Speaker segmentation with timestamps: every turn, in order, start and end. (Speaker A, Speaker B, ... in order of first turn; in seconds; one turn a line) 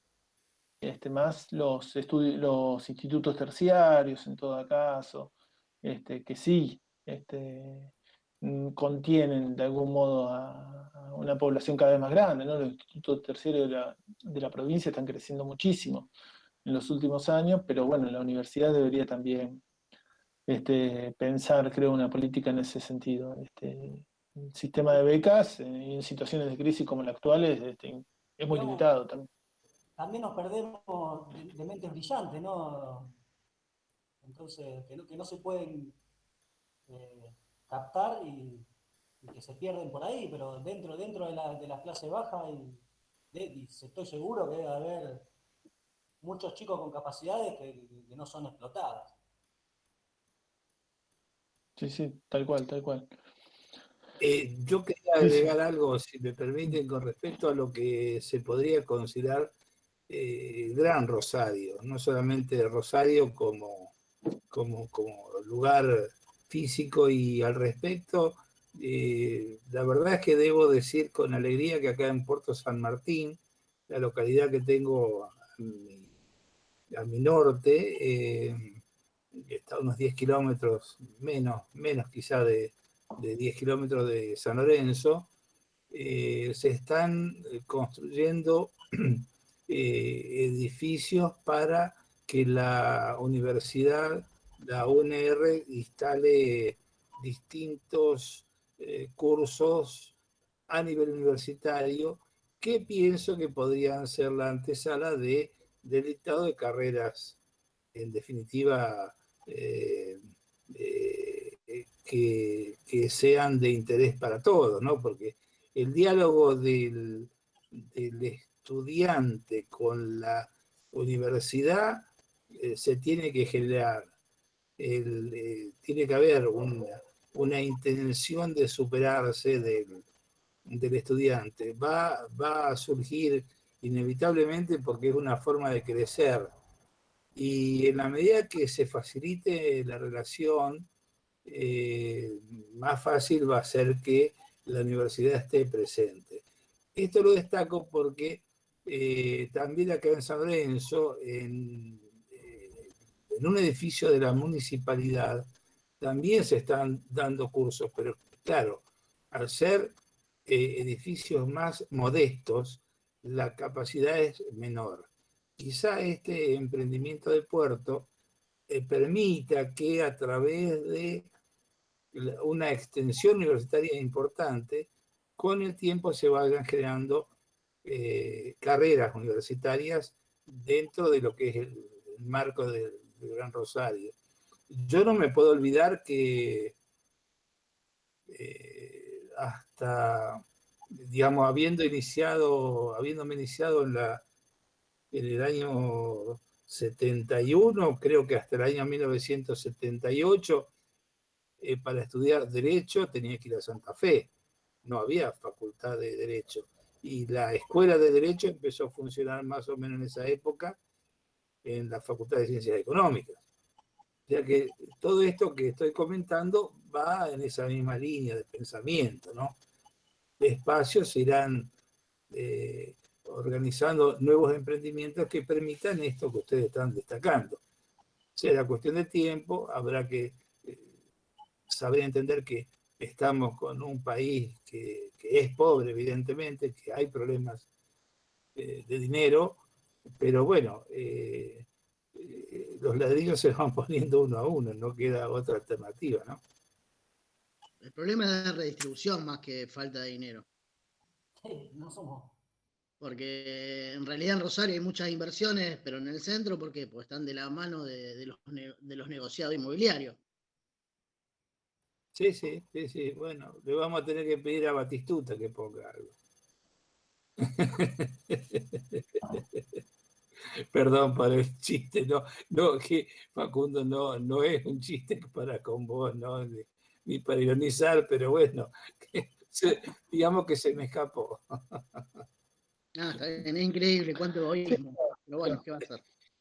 Speaker A: 0.8-16.1
Speaker A: 16.6-19.6
Speaker A: 20.5-29.3
Speaker B: 28.4-28.9
Speaker B: 30.0-33.1
Speaker B: 34.2-36.0
Speaker B: 36.9-38.7
Speaker B: 39.2-45.2
Speaker B: 46.2-49.1
Speaker A: 51.8-53.1
Speaker C: 54.2-59.5
Speaker A: 55.2-55.5
Speaker C: 60.1-63.9
Speaker C: 64.5-76.1
Speaker C: 76.9-78.8
Speaker C: 79.3-85.3
Speaker C: 85.9-100.1
Speaker C: 100.7-107.4
Speaker C: 107.9-124.1
Speaker C: 124.8-130.1
Speaker C: 130.7-136.5
Speaker C: 137.3-140.9
Speaker C: 141.4-146.4
Speaker C: 146.9-155.5
Speaker C: 156.0-159.9
Speaker C: 160.5-168.1
Speaker C: 168.7-171.3
Speaker C: 172.1-177.3
Speaker C: 177.8-184.2
Speaker C: 184.7-186.8
Speaker C: 188.3-194.2
Speaker C: 195.1-200.7
Speaker C: 201.6-204.3
Speaker C: 204.8-210.8
Speaker C: 211.6-213.4
Speaker C: 214.3-219.6
Speaker C: 220.4-221.7
Speaker C: 222.3-227.6
Speaker C: 228.4-230.9
Speaker C: 231.7-237.7
Speaker C: 238.6-239.6
Speaker C: 240.2-246.4
Speaker D: 247.8-250.5
Speaker B: 251.4-252.3
Speaker D: 253.0-260.2
Speaker C: 262.1-266.1
Speaker C: 267.4-269.8
Speaker C: 270.6-282.0
Speaker D: 283.0-286.0